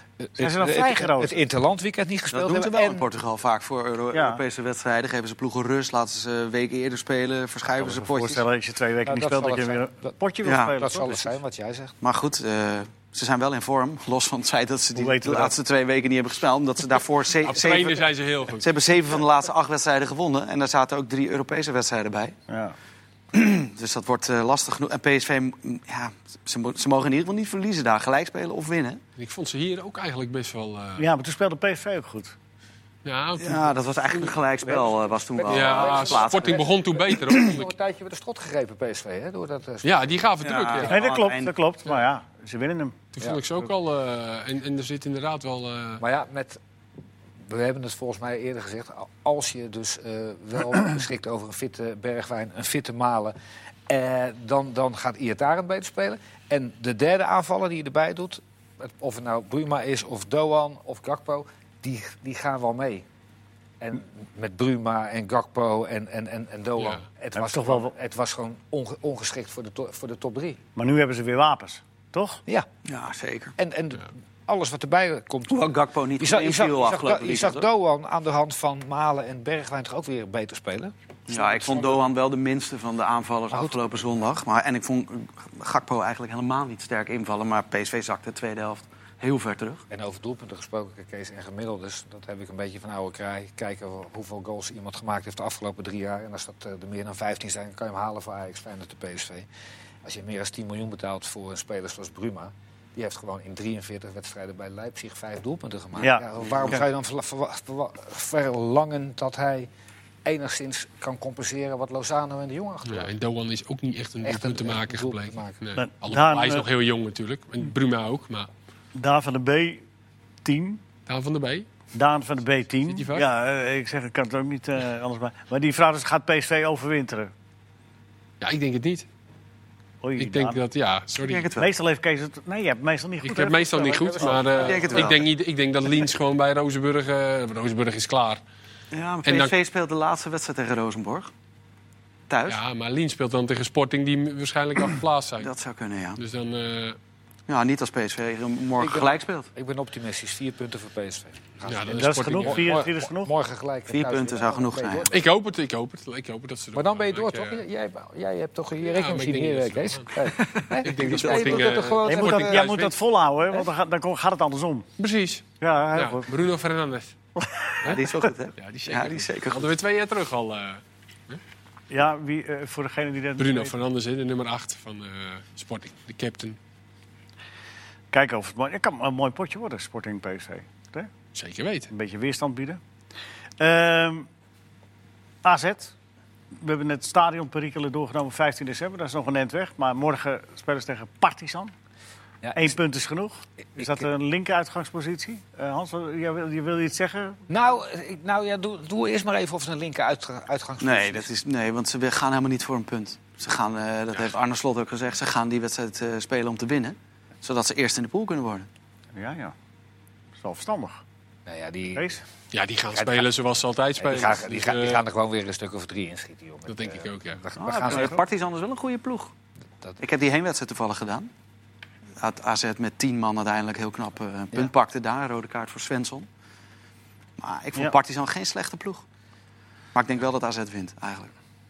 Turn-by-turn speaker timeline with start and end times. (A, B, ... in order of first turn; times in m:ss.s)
0:00.2-0:03.0 A
0:00.4-0:01.4 B
0:02.3-0:08.4 C
0:04.1-0:04.4 B
0:07.8-0:11.3 B
0:09.0-0:11.9 A
0:10.4-0:10.7 C
0:12.0-0:18.0 C
0:14.9-0:15.5 B
0:17.4-0:18.7 D
0:18.6-0:22.4 C
0:22.5-0:22.8 B
0:23.3-0:29.0 C
0:29.2-0:31.0 D
0:31.0-0:32.4 B
0:33.0-0:34.3 D
0:33.4-0:36.7 C
0:34.6-0:40.2 A
0:35.5-0:37.7 D
0:39.8-0:41.0 D
0:40.4-0:41.5 C
0:40.8-0:43.0 B
0:43.2-0:46.0 D
0:46.0-0:46.6 A
0:47.4-0:53.3 A
0:53.9-1:03.0 A
1:03.8-1:10.6 A
1:06.8-1:07.0 D
1:07.3-1:07.9 B
1:10.8-1:12.4 B
1:12.8-1:13.5 C
1:13.6-1:22.0 A
1:15.5-1:17.6 C
1:21.3-1:29.8 C
1:23.5-1:23.8 A
1:29.9-1:39.5 A
1:40.0-1:49.7 A
1:46.0-1:46.2 B
1:46.4-1:46.8 C
1:50.2-1:53.1 A
1:52.8-1:58.5 D
1:54.2-1:55.6 A
1:55.8-1:56.7 B
1:58.9-1:59.8 B
2:00.4-2:00.8 B
2:01.1-2:01.6 D
2:01.9-2:07.3 B
2:02.9-2:03.3 D
2:08.4-2:09.0 D
2:10.0-2:10.6 B
2:10.2-2:11.5 D
2:11.2-2:11.7 C
2:11.6-2:14.8 B
2:13.2-2:18.4 D
2:14.0-2:15.2 A
2:14.6-2:15.2 C
2:18.9-2:21.3 C
2:19.2-2:19.5 D
2:22.3-2:22.6 C
2:22.4-2:25.5 D
2:25.4-2:26.2 C
2:26.2-2:27.0 D
2:27.5-2:29.5 C
2:28.8-2:35.2 A
2:31.6-2:32.9 D
2:31.9-2:33.3 B
2:33.9-2:35.1 C
2:35.1-2:37.6 D
2:36.7-2:42.7 A
2:38.8-2:40.1 D
2:40.4-2:41.8 C
2:40.8-2:43.0 D
2:42.0-2:44.9 B
2:45.0-2:47.1 D
2:45.6-2:46.3 B
2:47.4-2:48.0 B
2:47.8-2:51.4 D
2:47.8-2:49.7 C
2:51.9-2:53.7 B
2:53.4-2:56.6 D
2:58.1-3:01.1 B
3:01.3-3:01.9 D
3:01.9-3:02.8 B
3:03.6-3:04.3 B
3:05.4-3:05.9 B
3:06.5-3:11.7 B
3:12.4-3:12.7 A
3:12.5-3:17.4 B
3:17.5-3:21.3 A
3:20.8-3:28.7 C
3:29.1-3:29.5 B
3:30.4-3:31.0 B
3:31.4-3:32.1 A
3:31.9-3:32.2 B
3:32.5-3:35.0 D
3:32.9-3:33.3 A
3:34.0-3:38.2 A
3:36.7-3:37.4 D
3:37.6-3:38.2 B
3:37.9-3:39.3 C
3:40.0-3:41.3 C
3:42.2-3:46.3 C
3:47.4-3:49.0 C
3:49.9-3:51.3 C